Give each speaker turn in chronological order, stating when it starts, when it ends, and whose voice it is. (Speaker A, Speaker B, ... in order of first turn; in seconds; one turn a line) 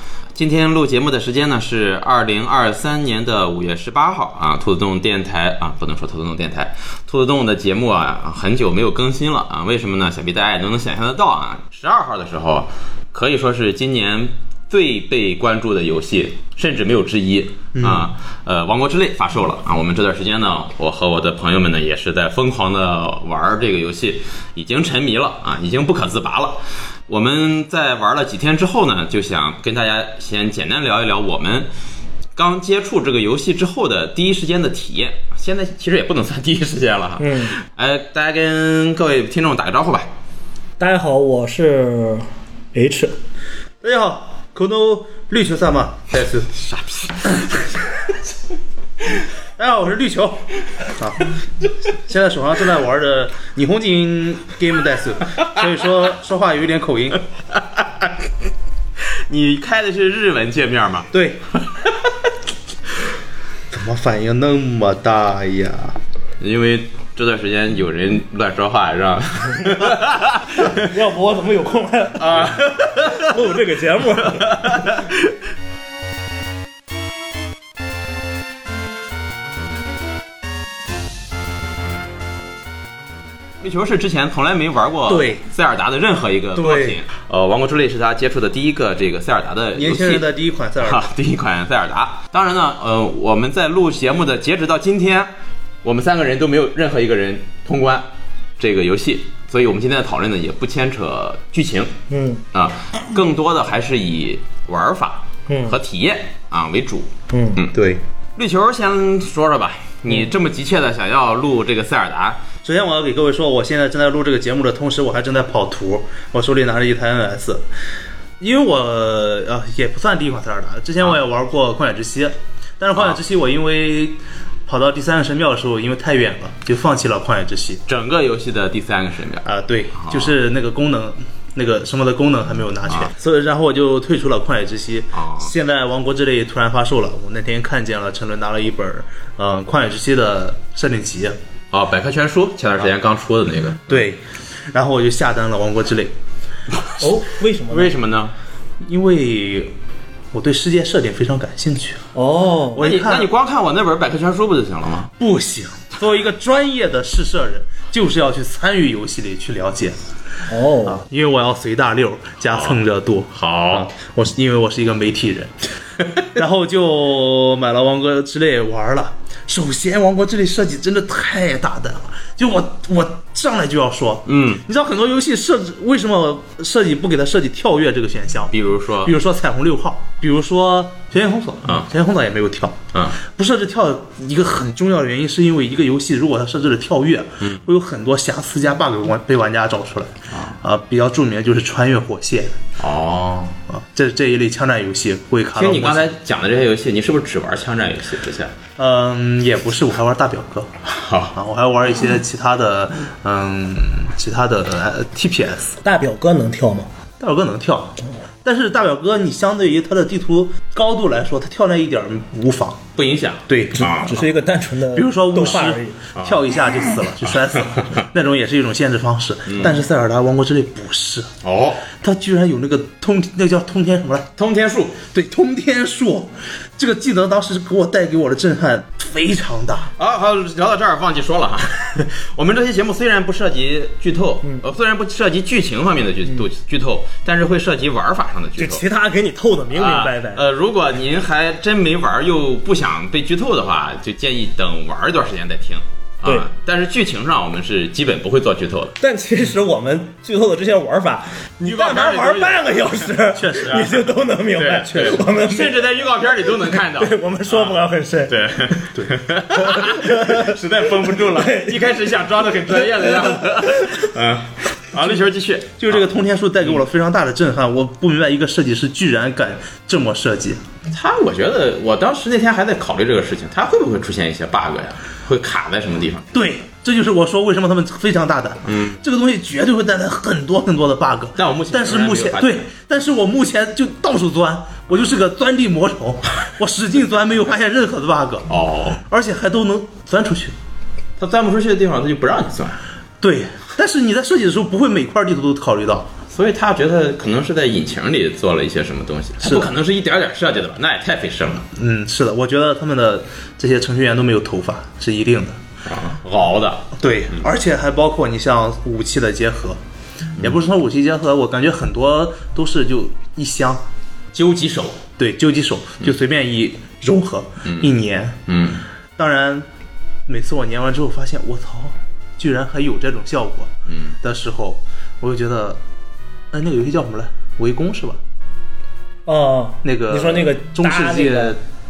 Speaker A: 0.4-31.7
Speaker B: 17.8-18.1
Speaker A: 32.4-40.1
Speaker C: 37.2-37.5
Speaker C: 40.8-43.2
Speaker B: 43.8-46.4
Speaker A: 46.2-47.7
Speaker B: 49.6-51.3
Speaker B: 51.9-57.2
Speaker A: 59.1-61.1
Speaker B: 61.1-61.4
Speaker B: 63.7-66.0
Speaker A: 66.4-70.8
Speaker C: 70.6-74.9
Speaker A: 72.2-73.4
Speaker A: 74.2-75.2
Speaker A: 83.6-90.3
Speaker B: 85.1-85.4
Speaker B: 86.5-87.0
Speaker B: 89.8-91.1
Speaker A: 90.8-95.3
Speaker A: 95.8-98.1
Speaker A: 98.6-101.9
Speaker C: 102.1-102.4
Speaker A: 102.5-107.8
Speaker C: 105.5-105.8
Speaker C: 107.3-107.6
Speaker B: 107.7-108.0
Speaker A: 108.4-112.4
Speaker B: 112.6-117.6
Speaker B: 118.4-127.8
Speaker A: 127.9-130.3
Speaker B: 129.4-141.4
Speaker A: 135.2-135.5
Speaker A: 141.7-144.0
Speaker B: 143.9-146.1
Speaker A: 146.8-147.1
Speaker C: 147.0-147.9
Speaker A: 147.7-148.3
Speaker B: 148.8-149.7
Speaker B: 150.3-152.1
Speaker C: 152.2-152.8
Speaker B: 152.7-153.3
Speaker A: 152.8-155.1
Speaker B: 155.2-160.0
Speaker C: 160.5-161.0
Speaker B: 160.8-165.7
Speaker A: 163.4-163.9
Speaker B: 166.3-192.6
Speaker A: 174.3-174.6
Speaker A: 178.5-179.1
Speaker A: 182.9-183.2
Speaker A: 190.3-190.6
Speaker A: 192.8-193.6
Speaker B: 193.7-196.1
Speaker A: 195.6-198.6
Speaker B: 198.8-200.7
Speaker A: 200.9-201.4
Speaker B: 201.3-205.8
Speaker C: 205.8-206.9
Speaker B: 207.2-212.8
Speaker A: 213.0-214.2
Speaker B: 213.5-213.9
Speaker C: 213.7-216.0
Speaker B: 214.9-221.3
Speaker A: 219.5-219.8
Speaker A: 221.4-221.8
Speaker B: 221.8-224.3
Speaker A: 224.4-225.0
Speaker B: 225.1-229.9
Speaker A: 230.0-238.8
Speaker C: 238.6-240.4
Speaker A: 239.7-249.0
Speaker C: 249.0-255.8
Speaker A: 251.6-253.9
Speaker B: 253.4-254.0
Speaker A: 254.6-266.0
Speaker C: 256.7-258.7
Speaker C: 259.6-260.6
Speaker C: 261.1-262.0
Speaker C: 263.0-263.4
Speaker B: 265.8-270.6
Speaker A: 270.9-276.3
Speaker B: 276.3-288.5
Speaker A: 278.7-279.0
Speaker A: 281.4-282.6
Speaker A: 288.5-289.0
Speaker B: 289.1-290.6
Speaker A: 291.2-292.8
Speaker B: 293.2-296.1
Speaker A: 296.3-301.7
Speaker B: 299.4-299.7
Speaker B: 301.8-305.6
Speaker A: 305.9-306.9
Speaker B: 307.0-309.8
Speaker B: 310.4-313.8
Speaker A: 314.3-315.1
Speaker B: 315.2-318.5
Speaker A: 317.6-317.9
Speaker A: 318.5-318.8
Speaker B: 319.2-319.7
Speaker B: 320.3-325.8
Speaker A: 323.9-324.2
Speaker B: 326.5-328.2
Speaker C: 329.3-331.6
Speaker B: 329.8-331.6